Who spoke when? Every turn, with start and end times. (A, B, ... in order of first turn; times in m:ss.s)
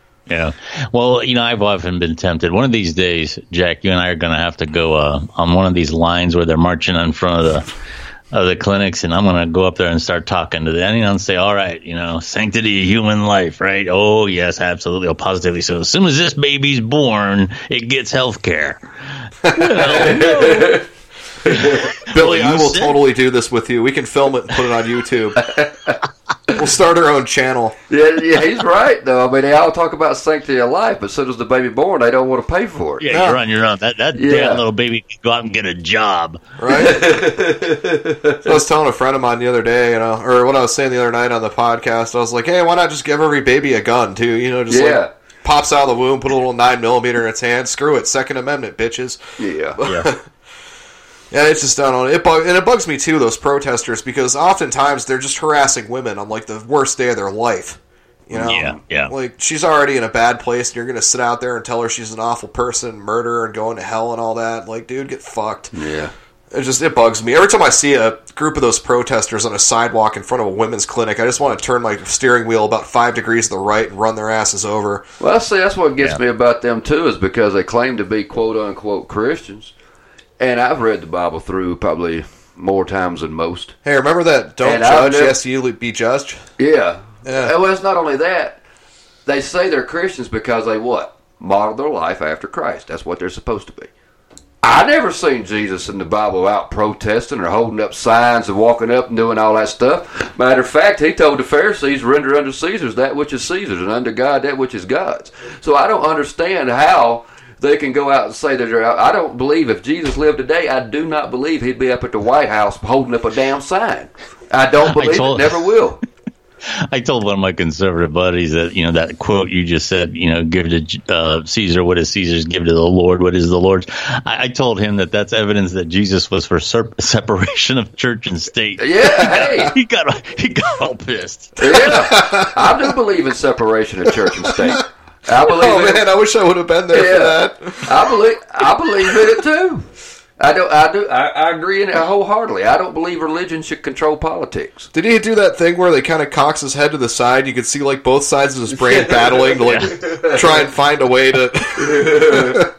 0:00.3-0:07.7 A
0:08.3-0:20.8 A
0:19.4-0:20.1 B
0:19.8-0:20.8 C
0:21.4-0:21.9 C
0:21.5-0:23.0 A
0:22.1-0:25.4 B
0:25.4-0:26.0 C
0:26.5-0:27.8 B
0:27.9-0:33.0 C
0:33.0-0:36.4 A
0:33.1-0:33.4 B
0:34.1-0:34.6 C
0:36.6-0:37.0 B
0:36.7-0:38.5 C
0:38.4-0:49.2 B
0:44.7-0:45.1 C
0:49.4-0:49.8 C
0:49.8-0:50.2 B
0:51.3-1:05.7 B
0:58.3-0:58.8 C
0:58.4-0:59.1 A
1:05.7-1:06.1 C
1:06.5-1:15.0 B
1:15.2-1:19.7 C
1:20.4-1:23.8 C
1:23.8-1:26.4 B
1:24.6-1:25.4 C
1:26.6-1:28.6 C
1:27.2-1:27.5 B
1:29.2-1:33.9 C
1:34.6-1:56.0 C
1:54.8-1:55.6 A
1:56.9-2:11.6 A
2:08.8-2:09.7 C
2:11.6-2:16.0 C
2:11.6-2:12.9 B
2:14.4-2:14.8 B
2:15.4-2:18.0 B
2:16.9-2:19.8 C
2:20.4-2:24.9 C
2:24.9-2:32.6 B
2:28.7-2:30.7 C
2:29.6-2:30.0 A
2:31.8-2:32.7 C